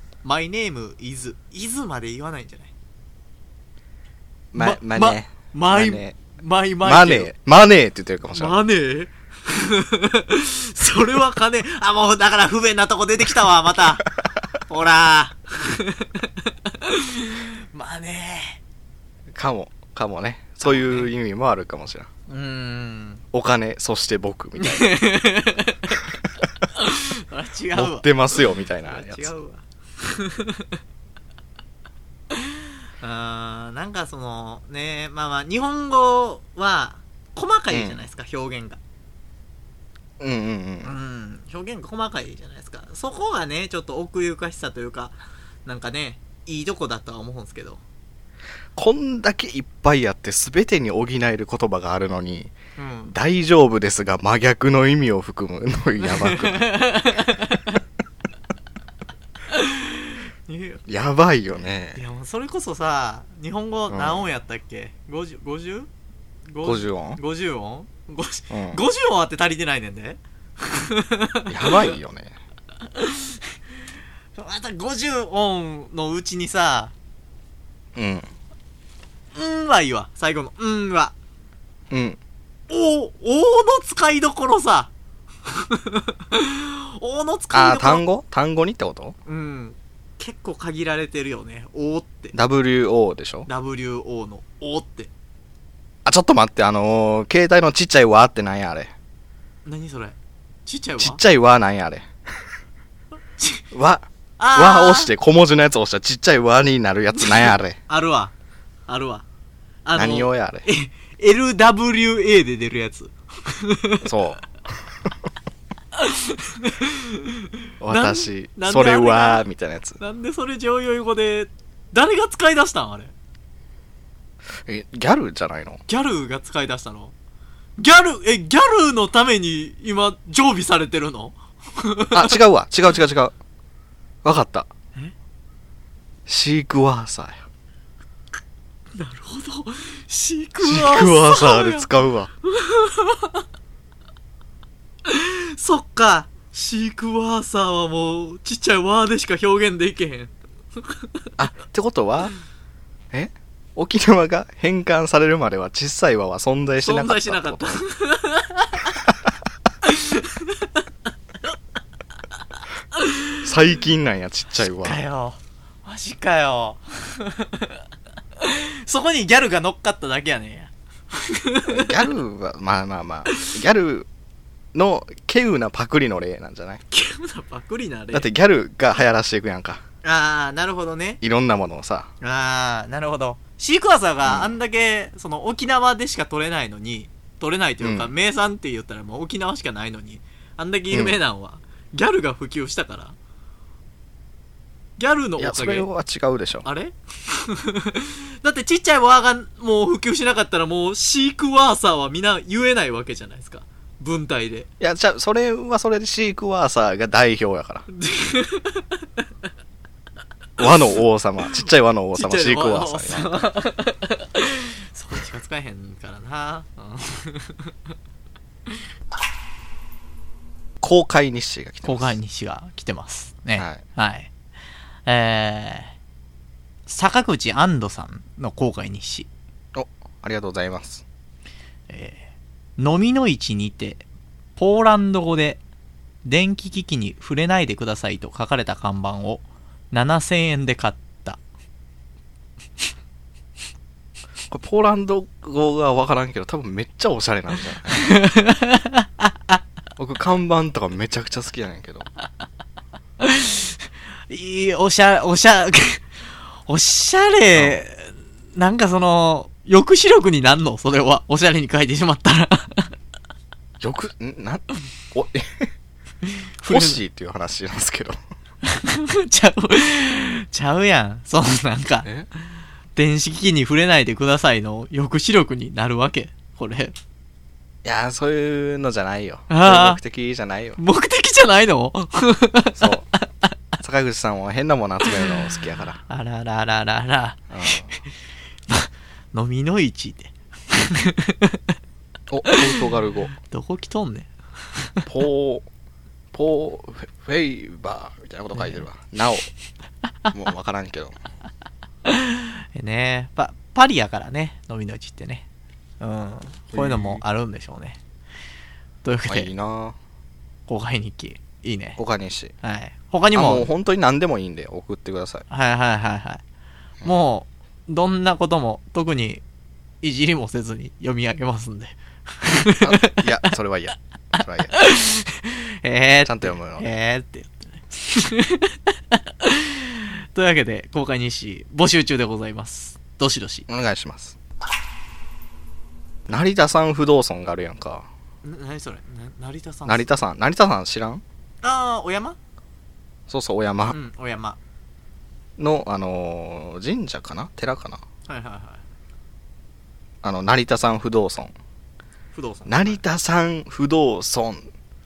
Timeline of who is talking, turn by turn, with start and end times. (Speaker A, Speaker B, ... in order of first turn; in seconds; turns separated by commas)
Speaker A: 0.2-2.7, Speaker B: 4.5-6.2, Speaker A: 4.5-7.3, Speaker B: 6.8-8.6, Speaker A: 8.3-14.1, Speaker A: 14.6-18.6, Speaker B: 19.3-22.1, Speaker A: 20.6-21.1, Speaker A: 22.3-23.2, Speaker B: 23.3-25.0, Speaker A: 24.6-26.0, Speaker A: 26.7-30.8, Speaker B: 27.7-29.3, Speaker A: 33.0-38.8, Speaker B: 37.7-38.0, Speaker B: 40.2-41.0, Speaker A: 40.8-47.8, Speaker B: 48.8-52.5, Speaker A: 52.8-53.1, Speaker B: 53.1-56.7, Speaker A: 56.0-57.8, Speaker A: 59.5-60.8, Speaker B: 60.9-62.0, Speaker A: 61.9-65.9, Speaker B: 63.9-64.2, Speaker A: 66.5-71.9, Speaker B: 66.6-67.2, Speaker B: 68.5-68.8, Speaker B: 71.5-72.3, Speaker A: 72.9-73.5, Speaker A: 74.3-76.9, Speaker B: 78.0-78.3, Speaker A: 79.3-81.1, Speaker B: 81.9-82.2, Speaker A: 82.7-84.9, Speaker A: 85.5-88.0, Speaker B: 87.5-89.1, Speaker A: 89.2-92.3, Speaker B: 92.3-93.5, Speaker A: 93.5-95.1, Speaker B: 96.0-98.9, Speaker A: 99.7-101.2, Speaker B: 101.0-102.1, Speaker A: 103.4-103.6, Speaker B: 103.7-107.8, Speaker A: 104.4-105.1, Speaker A: 107.1-108.3, Speaker A: 108.9-109.2, Speaker A: 109.8-114.1, Speaker B: 109.9-110.7, Speaker B: 114.0-114.4, Speaker A: 115.9-119.5, Speaker B: 117.8-120.0, Speaker A: 120.0-123.1, Speaker B: 124.7-125.8, Speaker A: 125.9-127.1, Speaker A: 127.8-132.4, Speaker B: 132.1-133.3, Speaker B: 134.2-134.7, Speaker B: 136.3-137.4, Speaker A: 138.9-141.9, Speaker B: 140.6-142.3, Speaker A: 142.4-143.4, Speaker A: 145.1-151.2, Speaker B: 151.4-152.3, Speaker B: 153.1-157.8, Speaker A: 156.8-159.0, Speaker A: 159.8-160.8, Speaker A: 162.9-163.5, Speaker B: 163.4-165.0, Speaker A: 164.6-167.8, Speaker A: 168.4-172.0, Speaker B: 171.7-174.1, Speaker B: 174.7-176.8, Speaker A: 176.9-178.3, Speaker B: 178.1-179.8, Speaker A: 180.0-181.2, Speaker B: 181.2-182.1, Speaker A: 182.2-193.2, Speaker B: 184.2-184.6, Speaker B: 187.8-188.1, Speaker B: 190.9-191.2, Speaker A: 195.0-195.9, Speaker B: 195.4-196.7, Speaker A: 196.6-204.7, Speaker B: 204.8-207.8, Speaker A: 207.9-209.2, Speaker B: 210.6-213.4, Speaker A: 212.1-217.7, Speaker B: 220.8-222.2, Speaker A: 221.8-224.3, Speaker A: 225.1-225.9, Speaker A: 226.9-229.3, Speaker B: 229.7-231.0, Speaker A: 231.9-234.0, Speaker A: 234.6-235.6, Speaker A: 236.2-241.4, Speaker B: 244.5-248.0, Speaker A: 247.9-249.6, Speaker B: 250.0-252.1, Speaker A: 253.2-253.8, Speaker A: 254.3-256.1, Speaker A: 256.6-262.9, Speaker B: 263.8-265.7, Speaker A: 266.2-267.0, Speaker B: 266.6-268.2, Speaker A: 268.6-272.1, Speaker A: 272.9-276.9, Speaker B: 277.8-280.8, Speaker A: 279.5-280.0, Speaker A: 280.8-283.2, Speaker B: 282.8-283.1, Speaker B: 283.8-286.0, Speaker A: 285.0-285.3, Speaker A: 286.1-287.8, Speaker B: 287.5-287.9, Speaker A: 288.7-291.7, Speaker B: 292.3-293.3, Speaker A: 292.5-292.8, Speaker A: 293.4-295.1, Speaker B: 295.1-295.6, Speaker B: 296.3-299.5, Speaker A: 298.5-298.9, Speaker B: 300.3-301.1, Speaker A: 302.0-305.4, Speaker A: 306.0-308.0, Speaker B: 306.7-307.2, Speaker A: 309.0-309.5, Speaker B: 309.3-310.0, Speaker A: 310.7-312.0, Speaker B: 312.0-312.5, Speaker A: 312.6-313.7, Speaker B: 313.3-315.4, Speaker A: 315.5-316.4, Speaker A: 317.0-319.4, Speaker A: 320.0-323.5, Speaker B: 322.8-324.8, Speaker A: 324.4-333.7, Speaker B: 326.2-326.9, Speaker B: 333.7-334.4, Speaker B: 336.3-338.1, Speaker A: 338.4-340.1, Speaker B: 339.9-341.2, Speaker A: 341.6-342.4, Speaker B: 343.3-344.0, Speaker A: 343.9-344.6, Speaker B: 345.6-348.0, Speaker A: 348.3-348.8, Speaker B: 350.2-351.5, Speaker A: 352.3-353.0, Speaker B: 352.7-354.7